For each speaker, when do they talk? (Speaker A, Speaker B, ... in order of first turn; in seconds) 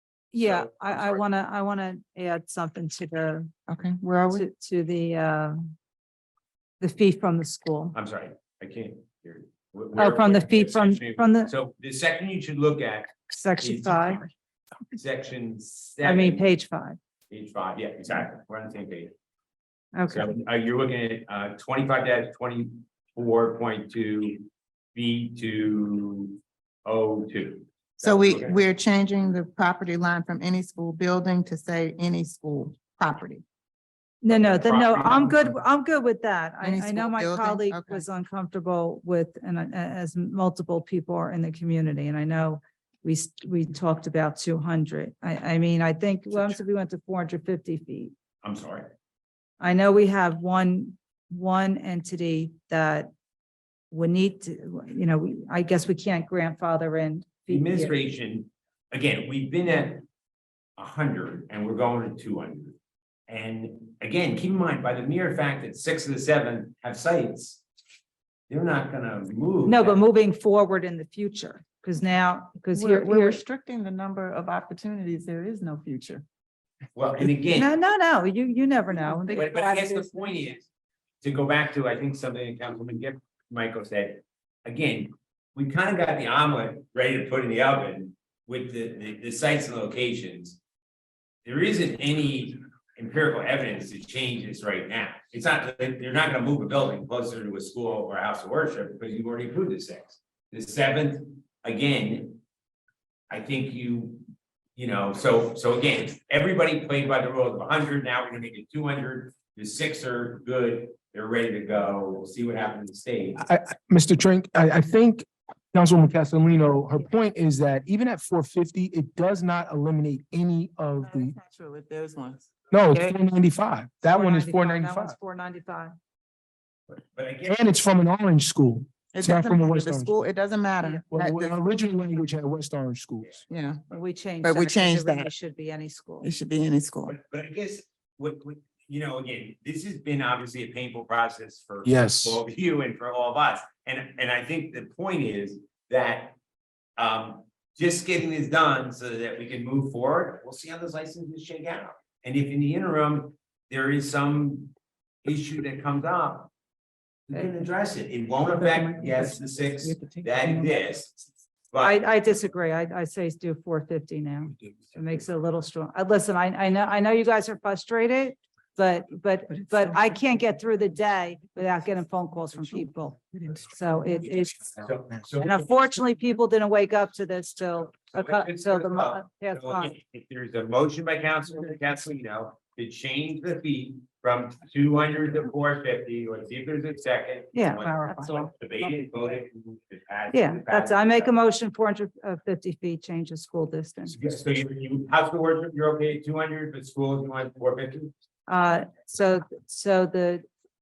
Speaker A: 0.3-3.5, 4.3-5.5, 6.8-7.9, 9.9-11.5, 13.3-14.2, 16.0-17.0, 19.9-20.3, 34.2-48.1, 49.6-53.1, 53.9-58.0, 69.7-73.4, 77.5-80.2, 124.1-125.9, 133.9-136.3, 161.8-174.8, 175.4-179.9, 187.5-188.5, 190.3-194.2, 198.5-200.4
Speaker B: 0.4-1.2, 7.9-14.3, 14.9-16.4, 17.3-19.1, 20.1-28.6, 34.3-35.6, 48.4-48.9, 57.5-60.0, 60.8-62.8, 63.3-67.6, 68.5-70.0, 76.9-77.7, 79.3-80.7, 81.2-90.6, 91.4-102.4, 103.3-104.2, 104.8-113.4, 126.9-127.8, 137.1-146.3, 147.0-156.5, 157.3-161.2, 161.7-162.0, 174.8-175.7, 178.1-191.3, 194.1-198.1
Speaker C: 3.7-4.5, 28.0-33.4, 36.6-38.0, 72.7-76.2, 121.0-123.2, 129.1-131.6, 133.5-133.8, 134.4-135.3, 136.2-137.1
Speaker D: 113.4-121.3, 122.7-125.2, 127.5-130.2, 131.1-133.4, 141.8-142.4